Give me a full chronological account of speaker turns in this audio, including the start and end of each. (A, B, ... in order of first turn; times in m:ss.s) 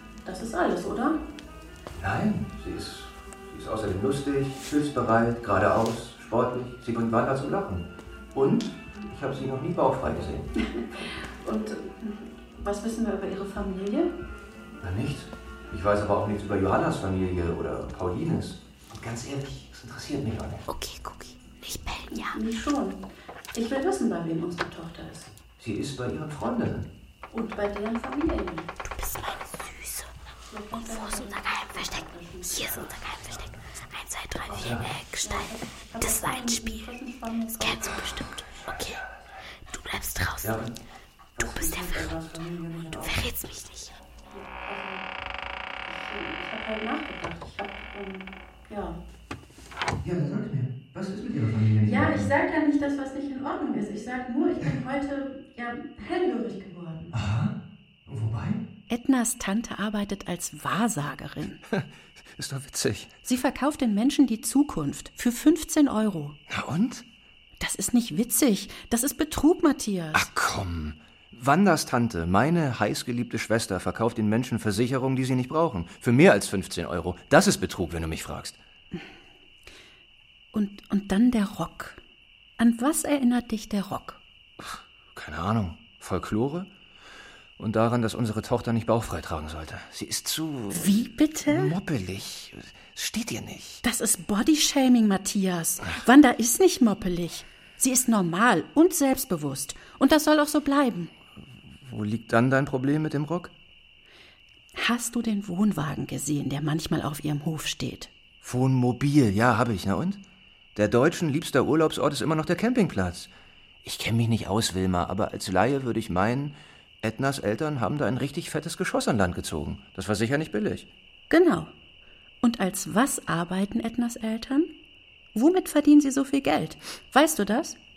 0:00.2-0:01.2 A
0:02.0-0:10.5 B
0:10.7-0:14.1 A
0:14.8-0:20.7 B
0:20.7-0:22.4 C
0:22.1-0:23.0 A
0:23.5-0:25.3 A
0:25.6-0:26.9 B
0:27.3-0:28.7 A
0:28.8-0:30.1 C
0:30.5-0:32.6 A
0:30.7-0:36.9 C
0:34.5-0:35.0 B
0:35.2-0:38.0 A
0:37.6-0:39.0 C
0:38.7-0:39.2 B
0:39.7-0:40.7 C
0:40.4-0:40.8 B
0:41.4-0:43.3 B
0:41.5-0:42.0 C
0:43.0-0:43.9 C
0:44.3-0:45.0 A
0:45.9-0:49.0 A
0:50.0-0:52.3 B
0:51.8-0:57.1 A
0:57.1-0:57.5 B
0:58.1-0:58.6 B
0:58.9-1:01.6 A
1:01.7-1:03.1 B
1:03.2-1:06.4 A
1:06.5-1:07.0 B
1:07.6-1:10.3 A
1:10.1-1:18.6 B
1:20.5-1:22.0 A
1:22.6-1:24.2 A
1:24.6-1:26.7 B
1:27.6-1:33.8 B
1:30.7-1:31.8 A
1:33.8-1:41.1 A
1:41.8-1:43.5 B
1:44.8-1:48.1 A
1:48.4-1:50.2 B
1:50.8-1:53.3 B
1:53.8-2:00.9 B
2:01.3-2:01.7 A
2:02.4-2:04.7 A
2:05.4-2:07.8 A